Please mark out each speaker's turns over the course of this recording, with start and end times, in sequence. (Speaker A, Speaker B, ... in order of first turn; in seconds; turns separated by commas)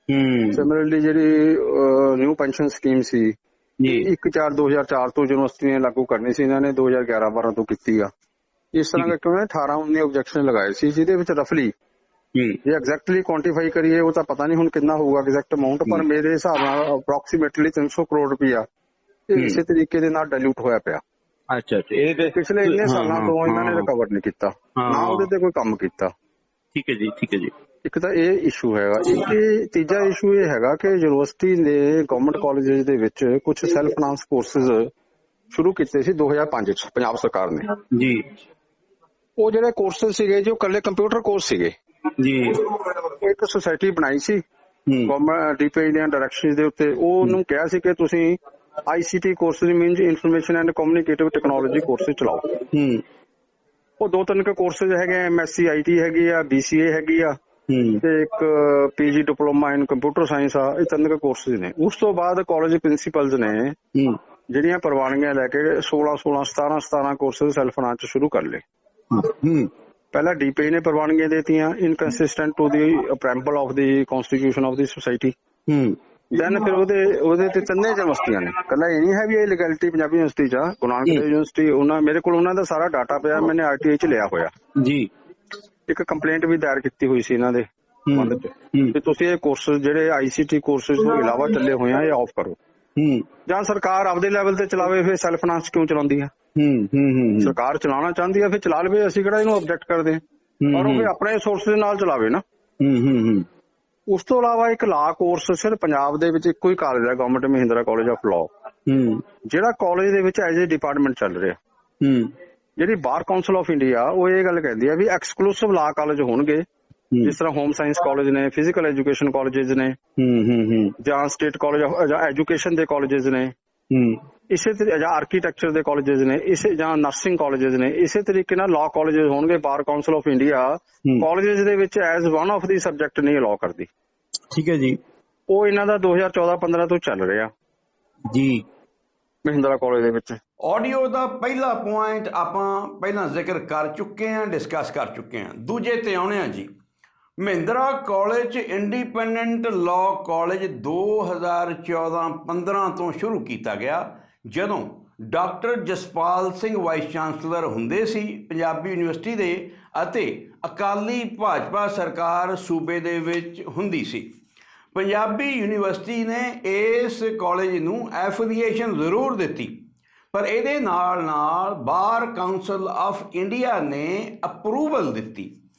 Speaker A: 0.1-0.7, Speaker B: 0.5-8.1, Speaker A: 3.8-4.1, Speaker B: 8.7-11.7, Speaker A: 12.3-12.6, Speaker B: 12.6-18.6, Speaker B: 19.3-21.0, Speaker A: 19.3-19.6, Speaker A: 21.5-23.9, Speaker B: 22.3-26.1, Speaker A: 24.8-25.3, Speaker A: 26.7-27.5, Speaker B: 27.8-34.9, Speaker B: 35.5-37.7, Speaker A: 37.9-38.2, Speaker B: 39.4-41.7, Speaker A: 42.2-42.6, Speaker B: 43.0-44.4, Speaker A: 44.9-45.1, Speaker B: 45.0-52.6, Speaker A: 52.7-53.0, Speaker B: 54.0-57.4, Speaker A: 57.7-58.0, Speaker B: 58.0-63.8, Speaker B: 64.5-68.6, Speaker A: 69.1-69.7, Speaker B: 70.1-75.3, Speaker A: 75.7-76.0, Speaker B: 76.3-84.5, Speaker A: 84.8-85.1, Speaker B: 85.9-92.6, Speaker A: 88.1-89.0, Speaker A: 93.0-93.3, Speaker B: 93.5-96.3, Speaker A: 96.5-97.5, Speaker B: 97.4-100.2, Speaker A: 100.6-101.1, Speaker B: 100.7-102.4, Speaker A: 102.8-103.5, Speaker B: 104.1-108.5, Speaker A: 108.9-109.3, Speaker B: 109.4-111.6, Speaker A: 112.0-112.3, Speaker B: 112.8-116.7, Speaker B: 117.2-120.0, Speaker A: 120.2-121.0, Speaker B: 121.0-123.5, Speaker A: 123.9-124.2, Speaker B: 124.5-133.9, Speaker A: 134.5-135.0, Speaker B: 135.5-137.5, Speaker A: 138.3-138.6, Speaker B: 139.4-140.4, Speaker C: 140.6-146.7, Speaker C: 147.4-164.3, Speaker C: 164.9-169.8, Speaker C: 170.3-175.5